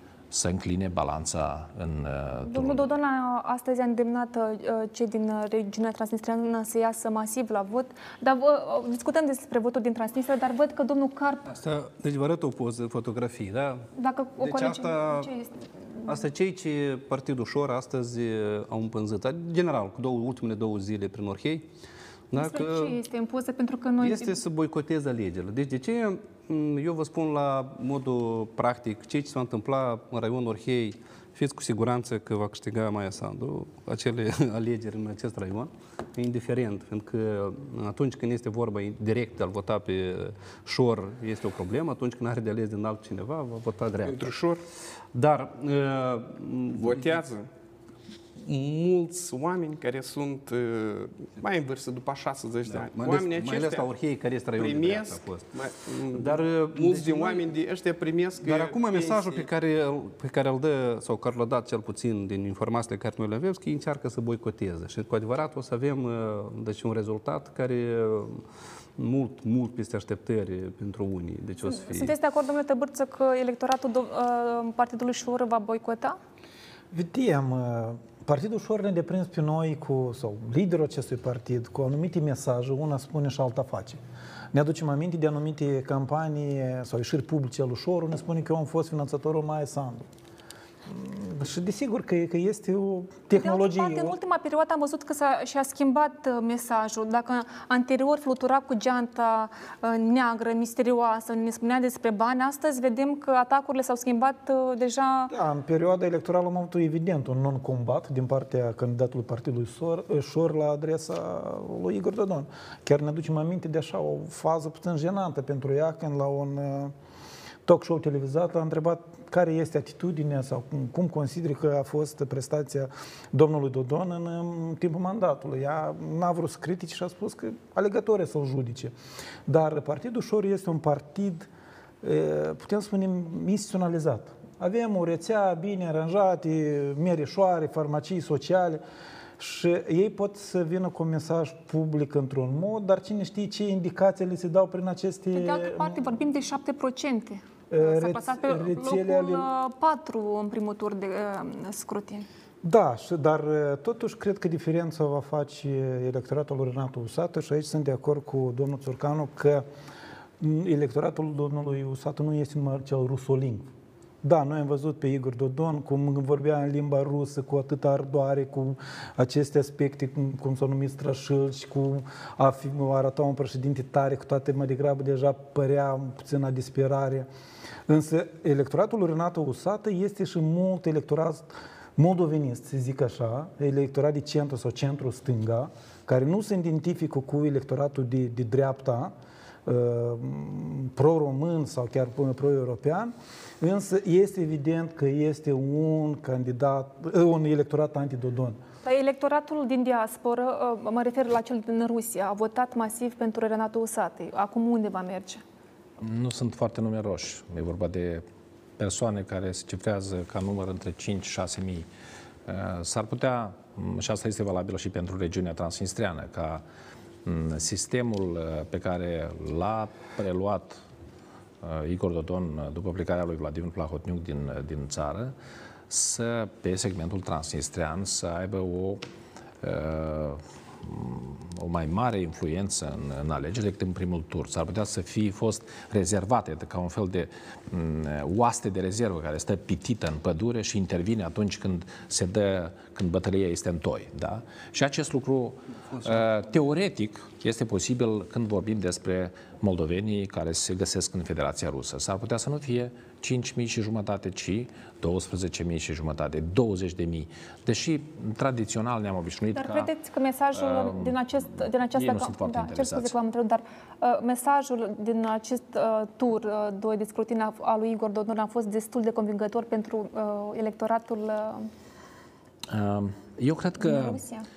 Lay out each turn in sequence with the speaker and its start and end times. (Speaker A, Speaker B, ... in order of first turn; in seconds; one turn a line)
Speaker A: 0.3-3.0
Speaker B: 2.5-11.5
Speaker C: 11.5-13.8
Speaker B: 14.0-16.2
Speaker C: 14.4-15.3
Speaker C: 16.1-21.7
Speaker C: 22.3-23.0
Speaker B: 22.3-24.4
Speaker C: 24.0-44.3
Speaker D: 44.0-44.6
Speaker C: 45.1-47.2
Speaker D: 46.7-47.5
Speaker D: 48.4-53.9
Speaker C: 52.7-55.5
Speaker D: 54.5-59.5
Speaker C: 56.1-57.5
Speaker C: 58.4-68.4
Speaker C: 69.0-72.1
Speaker B: 71.6-76.2
Speaker E: 76.9-84.0
Speaker E: 84.5-90.1
Speaker E: 90.9-94.2
Speaker B: 93.3-105.3
Speaker E: 105.3-116.9
Speaker E: 117.7-128.9
Speaker E: 129.5-131.5
Speaker E: 132.0-138.8
Speaker E: 139.4-146.0
Speaker B: 145.3-152.3
Speaker E: 147.7-149.5
Speaker E: 152.6-159.7
Speaker E: 160.4-163.7
Speaker E: 164.2-177.3
Speaker E: 177.9-189.1
Speaker E: 189.7-198.6
Speaker B: 198.8-205.4
Speaker A: 206.0-208.2
Speaker A: 208.8-211.9
Speaker A: 212.5-216.6
Speaker A: 217.2-220.8
Speaker A: 221.6-225.3
Speaker A: 225.9-229.0
Speaker A: 229.6-259.9
Speaker C: 245.9-246.4
Speaker B: 259.6-271.7
Speaker A: 260.5-263.1
Speaker A: 272.7-274.2
Speaker B: 273.8-274.5